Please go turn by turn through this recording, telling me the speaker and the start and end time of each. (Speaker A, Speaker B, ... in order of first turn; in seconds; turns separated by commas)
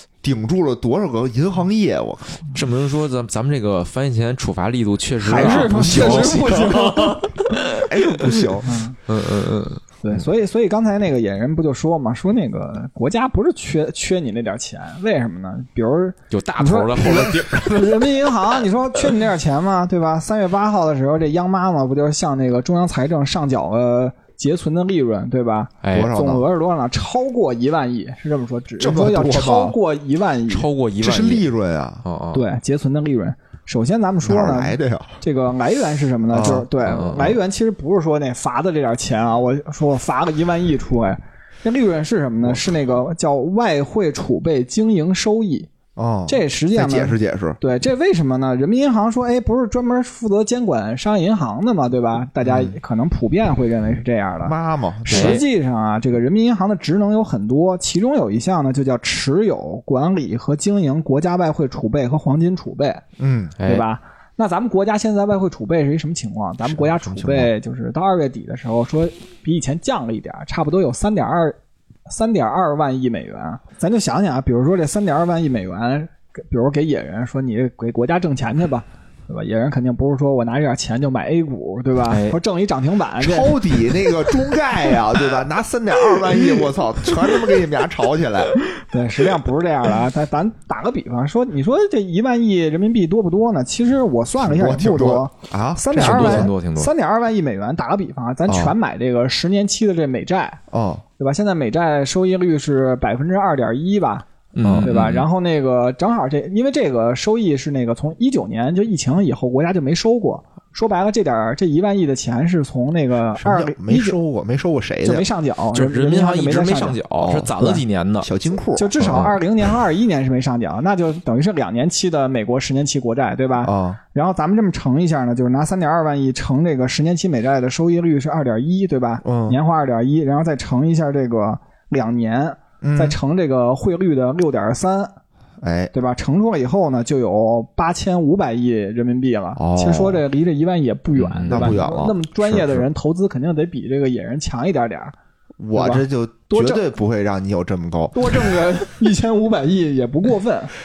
Speaker A: 0.2-2.5, Speaker B: 2.5-8.5, Speaker A: 5.2-7.1, Speaker C: 5.2-7.3, Speaker A: 7.7-8.7, Speaker C: 8.7-9.0, Speaker B: 9.1-9.8, Speaker C: 10.0-30.7, Speaker B: 16.3-18.6, Speaker B: 25.8-26.1, Speaker A: 25.9-26.4, Speaker A: 28.8-29.8, Speaker B: 30.5-31.5, Speaker A: 31.0-32.0, Speaker B: 32.0-32.5, Speaker C: 32.3-45.7, Speaker A: 34.2-35.2, Speaker A: 36.3-36.7, Speaker B: 36.8-37.4, Speaker A: 42.5-42.8, Speaker A: 46.0-47.6, Speaker C: 46.3-54.5, Speaker A: 52.4-52.8, Speaker A: 54.4-55.4, Speaker C: 55.1-63.0, Speaker B: 55.1-55.4, Speaker A: 63.2-63.6, Speaker B: 63.6-63.9, Speaker C: 63.6-85.0, Speaker A: 66.6-67.5, Speaker B: 82.1-82.4, Speaker A: 83.2-88.6, Speaker C: 88.8-100.6, Speaker A: 94.4-96.5, Speaker B: 96.0-96.9, Speaker A: 98.5-98.8, Speaker A: 100.7-101.0, Speaker C: 101.2-104.3, Speaker B: 104.5-105.3, Speaker A: 104.6-104.9, Speaker C: 104.8-114.2, Speaker A: 113.3-115.3, Speaker C: 115.0-117.0, Speaker B: 115.7-118.3, Speaker A: 117.2-117.5, Speaker A: 118.2-119.4, Speaker C: 118.8-135.1, Speaker B: 119.0-119.3, Speaker A: 123.6-124.0, Speaker A: 129.2-129.6, Speaker A: 132.8-133.2, Speaker A: 135.6-135.9, Speaker C: 135.9-145.1, Speaker A: 139.6-140.2, Speaker B: 141.2-141.8, Speaker A: 141.5-142.9, Speaker A: 145.6-148.5, Speaker C: 145.7-146.8, Speaker C: 148.1-150.8